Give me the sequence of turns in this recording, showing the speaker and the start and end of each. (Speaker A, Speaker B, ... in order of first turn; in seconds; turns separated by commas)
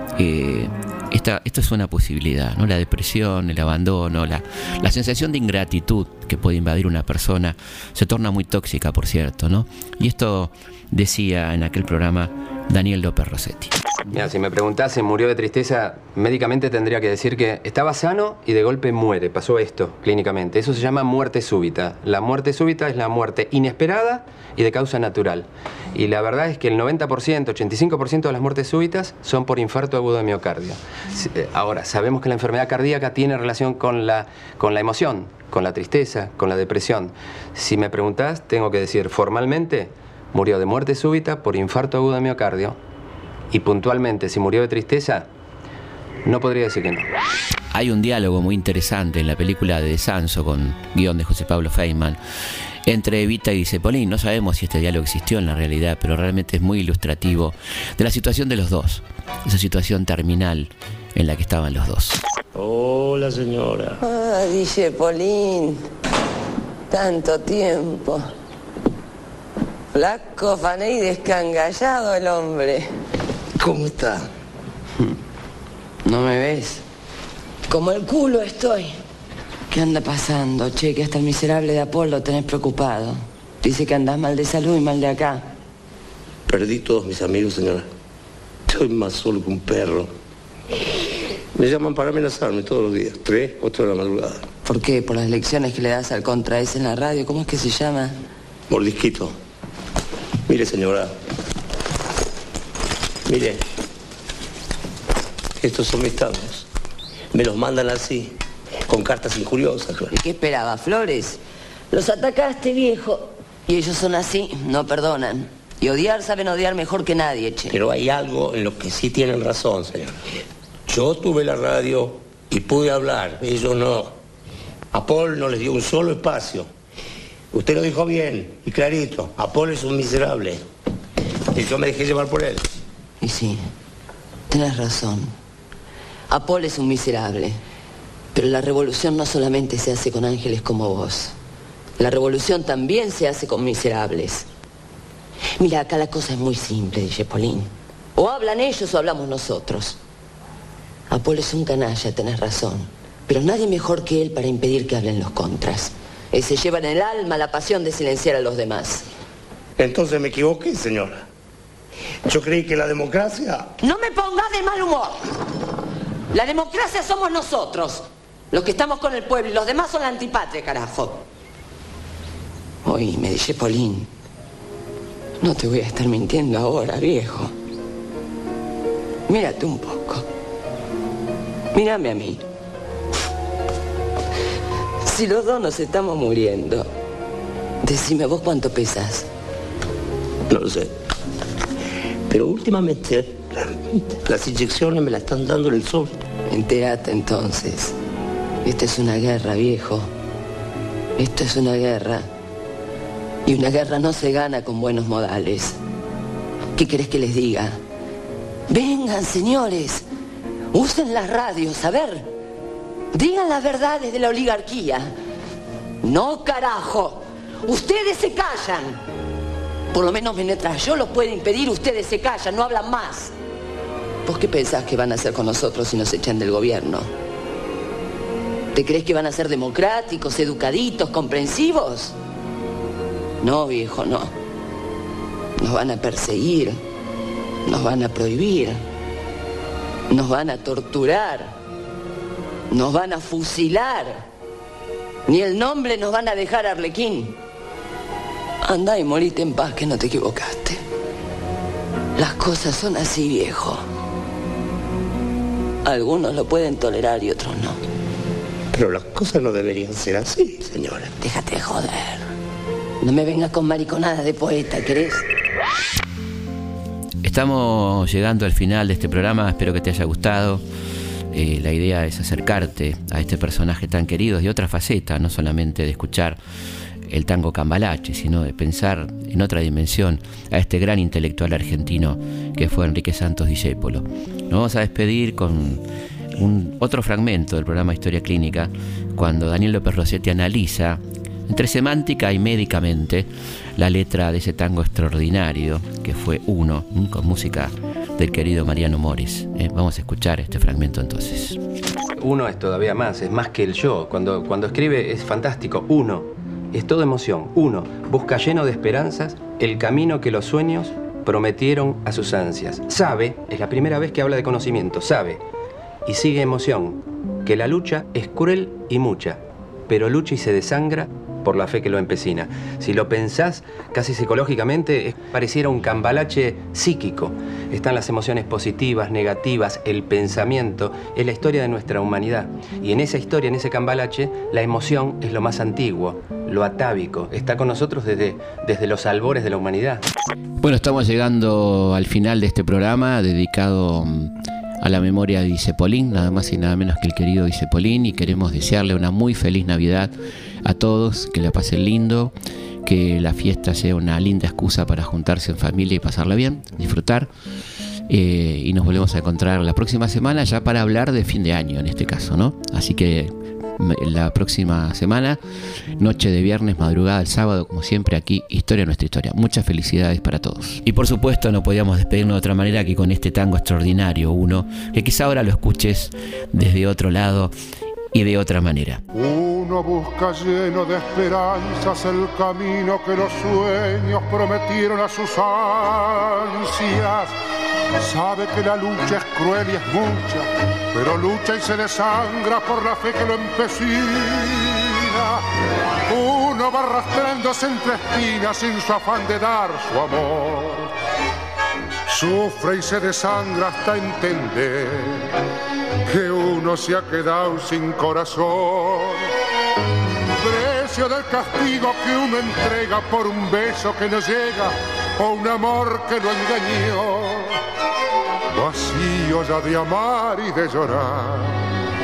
Speaker A: 0.1-13.7, Speaker B: 14.1-42.8, Speaker B: 43.5-45.3, Speaker B: 46.2-47.1, Speaker A: 47.7-52.2, Speaker A: 52.9-62.2, Speaker C: 62.5-64.0, Speaker D: 64.0-65.8, Speaker D: 66.9-68.2, Speaker D: 69.9-72.9, Speaker C: 73.6-74.3, Speaker D: 76.0-76.8, Speaker D: 77.7-79.0, Speaker D: 79.7-85.4, Speaker C: 86.5-87.9, Speaker C: 88.7-90.1, Speaker C: 91.5-94.4, Speaker D: 94.7-98.2, Speaker C: 98.7-99.3, Speaker C: 100.5-101.1, Speaker C: 103.3-103.6, Speaker C: 105.6-106.7, Speaker C: 107.3-108.4, Speaker C: 108.9-110.1, Speaker D: 110.1-111.4, Speaker D: 111.9-117.8, Speaker C: 117.7-120.2, Speaker C: 120.8-124.1, Speaker C: 124.9-126.7, Speaker C: 127.5-130.6, Speaker C: 131.5-132.7, Speaker D: 133.2-133.6, Speaker D: 134.5-135.3, Speaker D: 136.3-137.6, Speaker D: 138.3-141.3, Speaker D: 142.0-144.5, Speaker D: 145.6-150.0, Speaker D: 151.1-159.1, Speaker C: 159.8-161.2, Speaker C: 162.2-163.7, Speaker D: 163.8-165.2, Speaker D: 166.3-171.2, Speaker D: 172.8-174.1, Speaker D: 175.4-177.5, Speaker D: 179.3-180.2, Speaker D: 181.7-182.4, Speaker D: 185.0-186.9, Speaker D: 187.8-189.3, Speaker C: 190.5-190.9, Speaker C: 192.3-196.2, Speaker D: 196.5-197.9, Speaker D: 198.6-200.1, Speaker D: 201.2-202.2, Speaker D: 203.4-205.8, Speaker D: 206.8-207.8, Speaker D: 208.7-210.0, Speaker D: 210.7-212.3, Speaker D: 213.1-215.1, Speaker D: 216.0-219.0, Speaker D: 219.9-223.3, Speaker D: 224.2-227.1, Speaker D: 228.7-232.1, Speaker D: 233.4-234.3, Speaker D: 235.6-236.8, Speaker D: 237.7-238.8, Speaker D: 240.1-241.5, Speaker D: 242.7-244.2, Speaker D: 245.3-247.3, Speaker D: 248.6-250.8, Speaker D: 252.2-253.8, Speaker D: 255.8-257.8, Speaker C: 258.7-261.1, Speaker D: 261.2-262.3, Speaker D: 263.0-265.2, Speaker A: 267.2-270.6, Speaker A: 271.3-276.4, Speaker A: 277.1-285.8, Speaker A: 286.4-301.6, Speaker B: 302.1-315.4, Speaker B: 316.1-340.0, Speaker A: 340.6-350.1, Speaker A: 350.6-352.3, Speaker A: 352.8-357.3, Speaker A: 358.1-365.4, Speaker A: 366.0-377.5, Speaker A: 378.1-379.0, Speaker E: 379.1-387.3, Speaker E: 388.0-395.4, Speaker E: 396.1-400.9, Speaker E: 402.1-405.3, Speaker E: 406.1-409.3, Speaker E: 410.4-417.6, Speaker E: 418.5-421.7